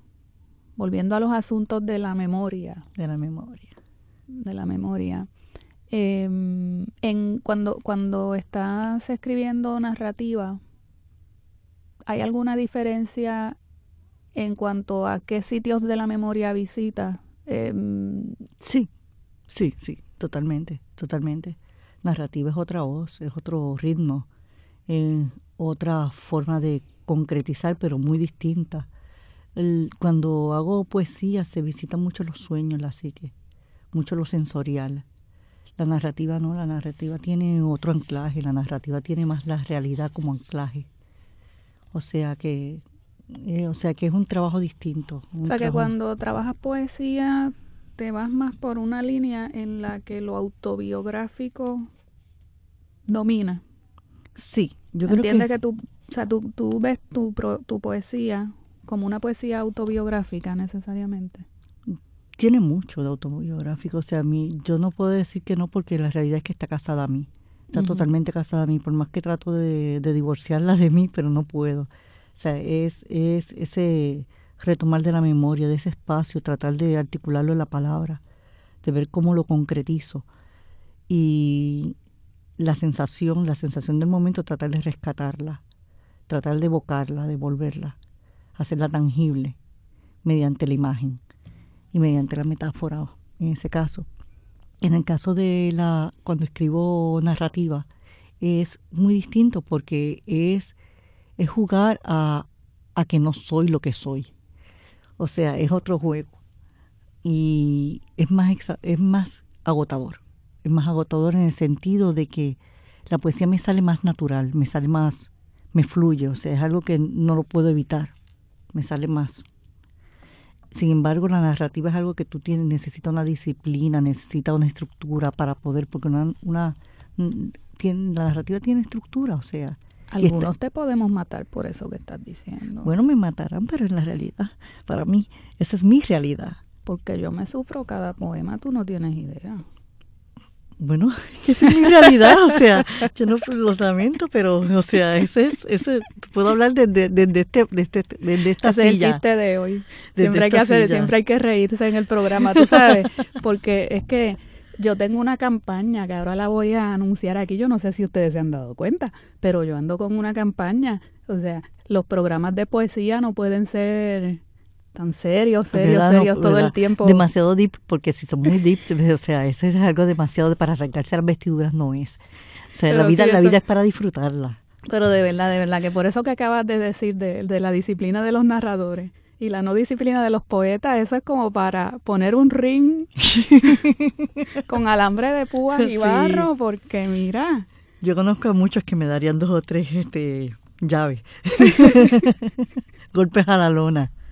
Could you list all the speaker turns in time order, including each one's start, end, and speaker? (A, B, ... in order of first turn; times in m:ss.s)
0:00.8-0:02.8 A
0:03.0-0:03.7 B
0:04.3-0:05.3 A
0:05.9-0:10.6 A
0:12.0-0:13.6 A
0:14.3-0:18.5 A
0:18.6-0:18.9 B
0:19.5-0:24.3 B
0:24.9-0:28.9 B
0:29.6-0:33.3 B
0:33.9-0:35.0 B
0:35.8-0:40.9 B
0:41.9-0:45.9 B
0:45.4-0:51.9 A
0:53.1-0:53.6 A
0:54.4-0:55.6 B
0:55.0-1:01.4 A
1:01.8-1:18.2 B
1:07.7-1:08.1 A
1:18.8-1:20.2 B
1:21.1-1:22.0 B
1:22.6-1:25.6 B
1:26.3-1:28.0 B
1:28.6-1:29.6 B
1:30.2-1:31.2 B
1:31.9-1:34.1 B
1:34.8-1:37.9 B
1:38.4-1:40.7 B
1:41.4-1:44.3 B
1:45.2-1:46.3 B
1:47.2-1:58.1 B
1:58.7-1:59.4 B
2:00.7-2:10.5 B
2:10.1-2:12.9 A
2:12.8-2:16.6 B
2:16.8-2:19.6 A
2:20.8-2:29.2 B
2:28.6-2:44.4 A
2:30.1-2:31.1 B
2:32.5-2:32.9 B
2:44.9-2:47.2 A
2:45.7-2:52.2 B
2:52.7-2:54.6 B
2:52.8-2:53.6 A
2:54.8-3:03.8 A
3:03.3-3:04.5 B
3:04.5-3:07.7 A
3:05.7-3:06.5 B
3:08.0-3:14.1 B
3:11.7-3:12.1 A